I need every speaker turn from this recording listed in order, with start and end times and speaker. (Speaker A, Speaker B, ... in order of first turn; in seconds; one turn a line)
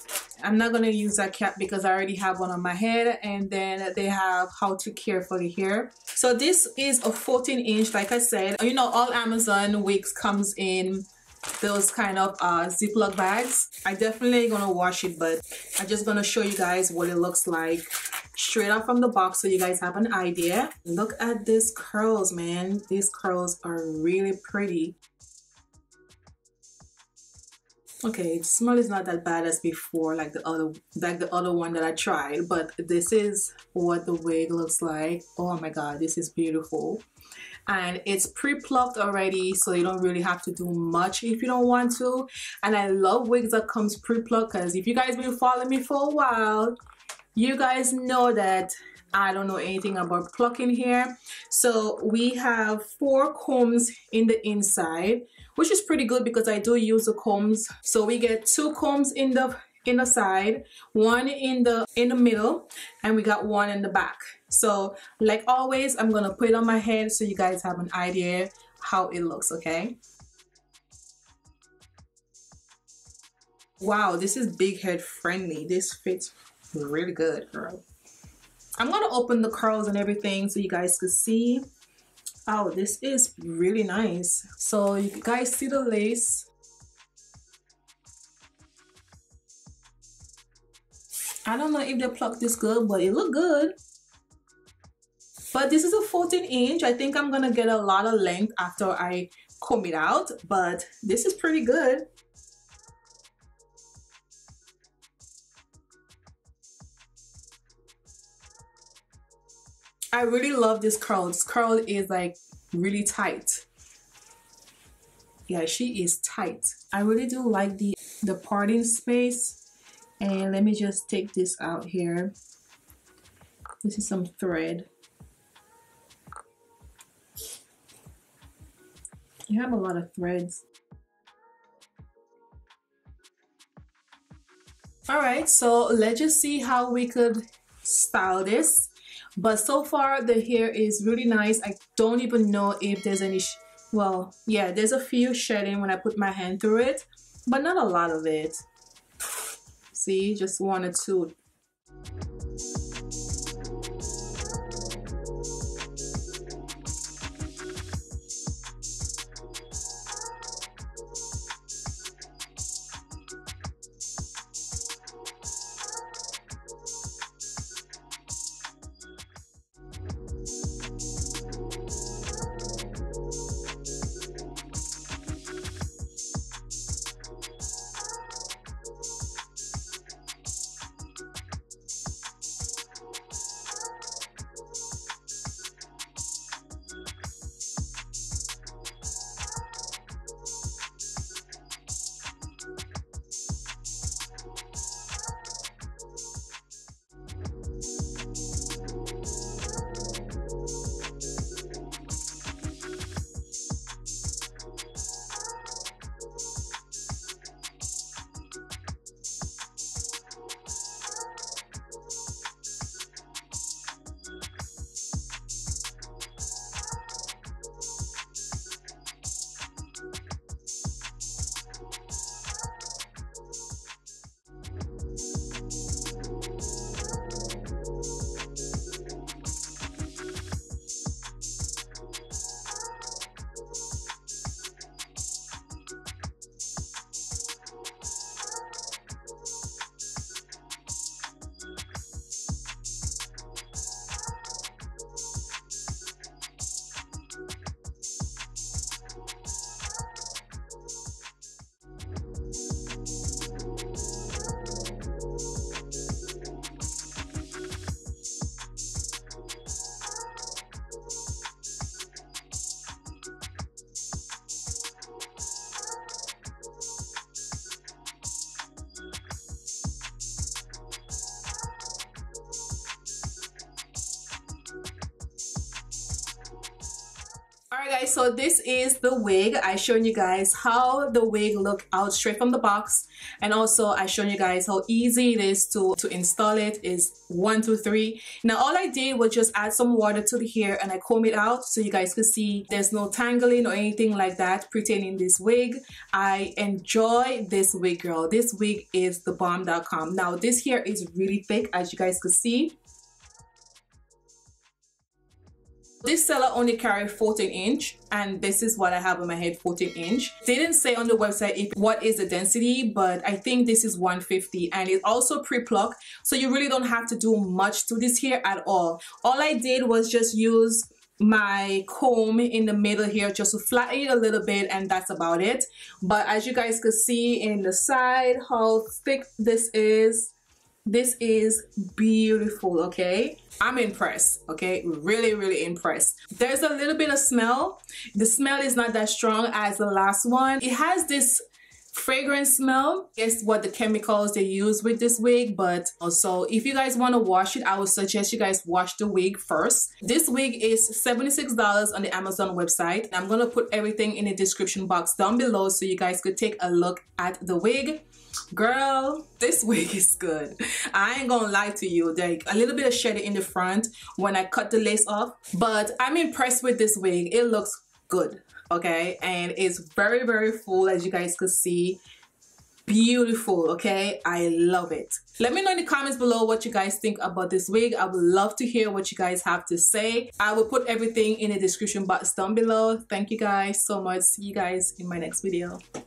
Speaker A: 0.4-11.1
Speaker A: 11.6-25.0
Speaker A: 28.0-37.0
Speaker A: 37.7-46.7
Speaker A: 47.4-70.0
Speaker A: 73.8-77.8
Speaker A: 78.8-81.7
Speaker A: 82.5-86.5
Speaker A: 91.5-93.7
Speaker A: 95.5-102.0
Speaker A: 110.1-113.7
Speaker A: 115.5-119.6
Speaker A: 120.2-122.3
Speaker A: 123.8-124.9
Speaker A: 129.5-130.7
Speaker A: 135.1-148.6
Speaker A: 149.9-151.3
Speaker A: 277.7-302.8
Speaker A: 306.0-330.3
Speaker A: 330.9-358.0
Speaker A: 358.5-372.0
Speaker A: 372.9-385.8